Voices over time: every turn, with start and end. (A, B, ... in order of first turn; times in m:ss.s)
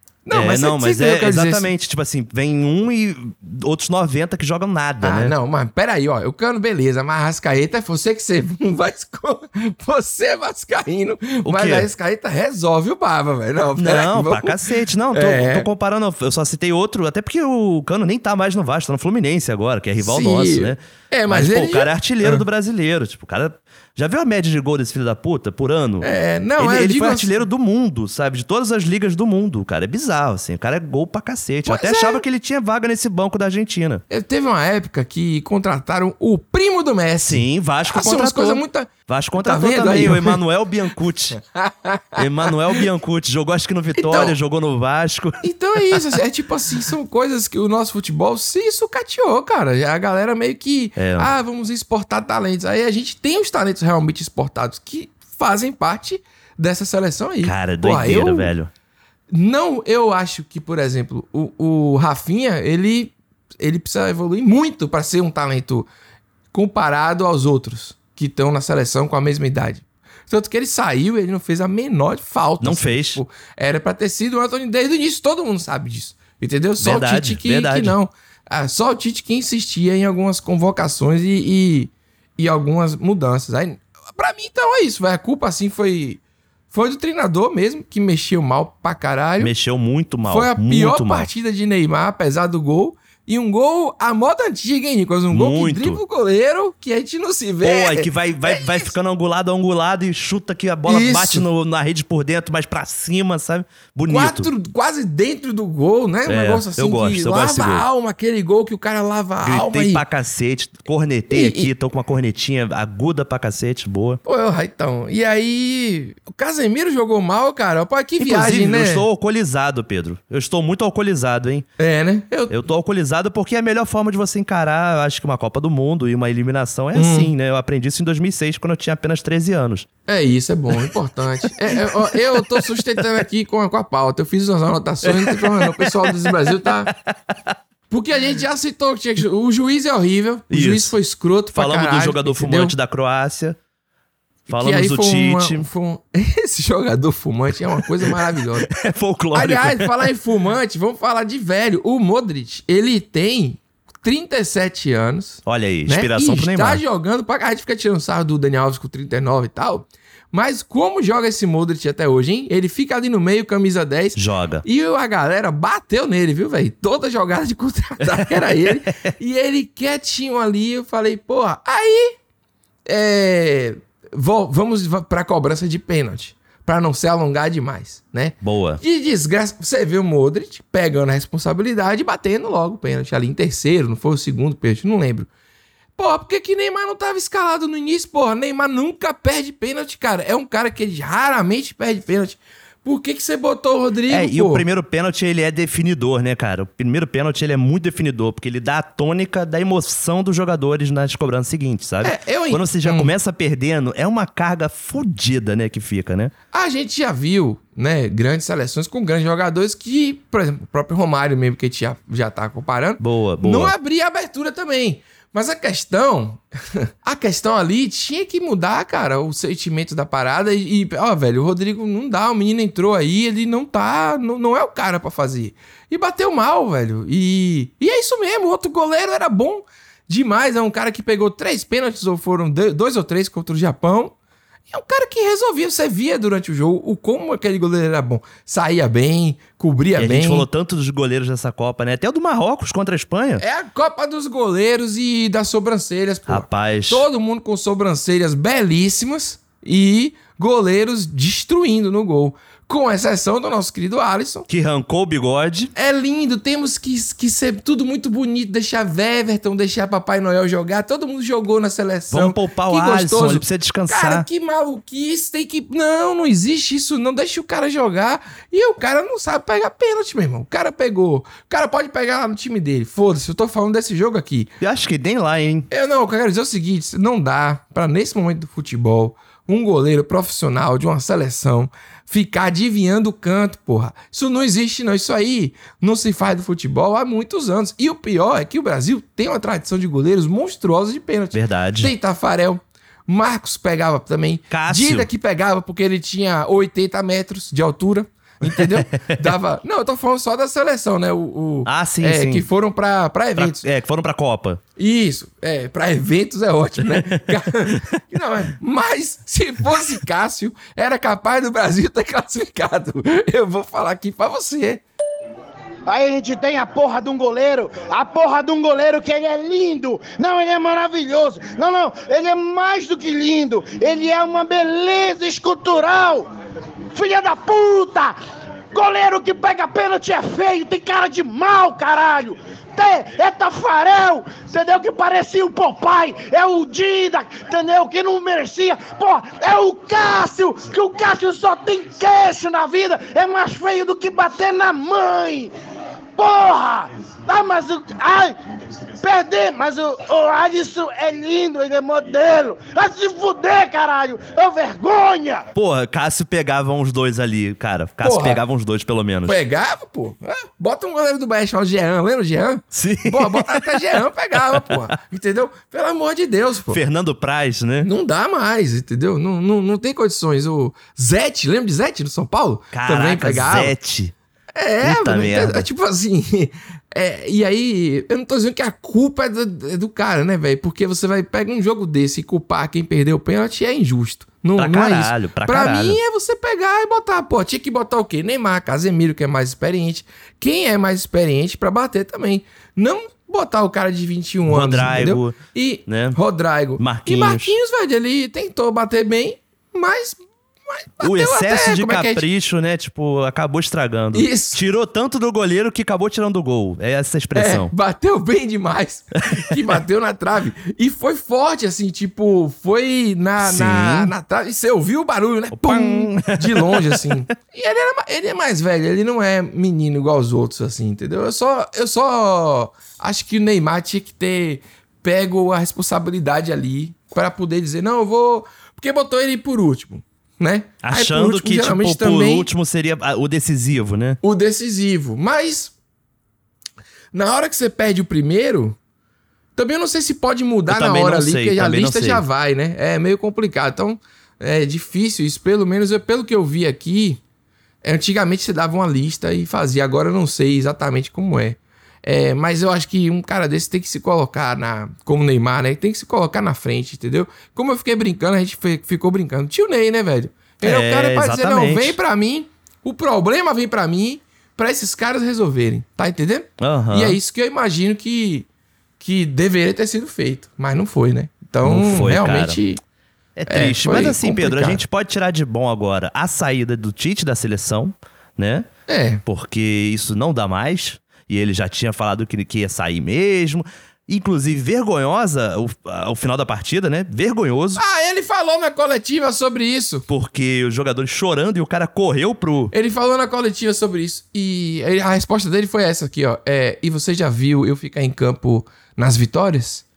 0:00.2-0:01.7 A
0:00.3-0:05.4 B
0:05.0-0:14.6 A
0:11.5-0:11.9 B
0:13.8-0:26.1 B
0:15.1-0:15.7 A
0:20.0-0:22.4 A
0:26.0-0:27.4 A
0:26.6-0:34.0 B
0:31.7-0:32.2 A
0:34.1-0:40.4 A
0:37.3-0:41.4 B
0:41.4-0:42.8 A
0:42.2-0:46.0 B
0:44.0-0:44.4 A
0:45.4-0:58.5 A
0:51.0-0:51.3 B
0:57.4-0:58.7 B
0:59.3-1:05.9 A
1:06.5-1:26.2 A
1:12.6-1:13.2 B
1:16.8-1:18.0 B
1:26.7-1:29.5 A
1:29.4-1:31.3 B
1:30.3-1:38.9 A
1:35.3-1:36.0 B
1:37.6-1:44.5 B
1:40.9-1:41.4 A
1:44.1-1:50.0 A
1:46.3-1:47.8 B
1:49.4-1:54.2 B
1:51.3-1:51.7 A
1:54.2-1:59.1 A
1:58.2-2:01.7 B
2:01.8-2:02.6 A
2:02.5-2:09.9 B
2:06.9-2:07.3 A
2:10.1-2:16.9 A
2:11.4-2:13.0 B
2:15.0-2:16.1 B
2:16.6-2:17.6 B
2:17.9-2:22.7 A
2:20.5-2:20.9 B
2:21.5-2:23.6 B
2:24.5-2:28.7 A
2:24.5-2:25.7 B
2:28.6-2:29.9 B
2:29.3-2:52.2 A
2:35.4-2:36.8 B
2:44.2-2:44.6 B
2:48.0-2:48.7 B
2:52.9-3:05.3 A
2:58.4-2:58.8 B
3:06.0-3:14.6 A
3:14.1-3:26.3 B
3:22.0-3:23.1 A
3:26.5-3:54.1 A
3:33.0-3:33.7 B
3:54.7-4:00.5 A
4:00.0-4:03.4 B
4:03.4-4:14.5 A
4:06.3-4:07.0 B
4:14.5-4:15.7 B
4:15.8-4:34.5 A
4:22.1-4:24.3 B
4:34.6-4:35.7 B
4:35.7-5:03.6 A
4:51.3-4:51.9 B
4:54.5-4:55.1 B
4:58.4-4:59.4 B
5:01.7-5:02.4 B
5:03.4-5:04.6 B
5:04.8-5:14.8 A
5:06.8-5:08.0 B
5:15.9-5:26.3 C
5:27.0-5:28.2 C
5:28.7-5:45.5 C
5:46.2-5:48.4 C
5:49.0-5:55.5 C
5:55.5-5:59.4 B
5:58.0-5:58.4 A
5:59.2-6:06.8 A
6:02.7-6:03.6 B
6:04.5-6:04.8 B
6:06.7-6:07.9 B
6:07.8-6:13.7 A
6:12.7-6:14.1 B
6:14.6-6:42.2 A
6:14.8-6:15.7 B
6:24.6-6:26.0 B
6:34.5-6:36.2 B
6:36.8-6:37.6 B
6:41.0-6:47.7 B
6:44.1-6:44.6 A
6:47.4-7:12.5 A
6:53.4-6:54.1 B
6:55.5-6:57.2 B
7:10.8-7:14.2 B
7:14.2-7:15.7 A
7:17.1-7:18.8 A
7:19.6-7:27.2 A
7:20.7-7:22.2 B
7:27.8-7:48.5 A
7:40.6-7:42.0 B
7:46.6-7:47.2 B
7:49.0-7:52.8 A
7:51.6-7:52.6 B
7:53.4-7:58.7 B
7:53.5-7:54.8 A
7:58.9-7:59.2 A
7:59.2-8:07.8 B
8:07.8-8:10.1 A
8:10.1-8:12.7 B
8:12.7-8:19.8 A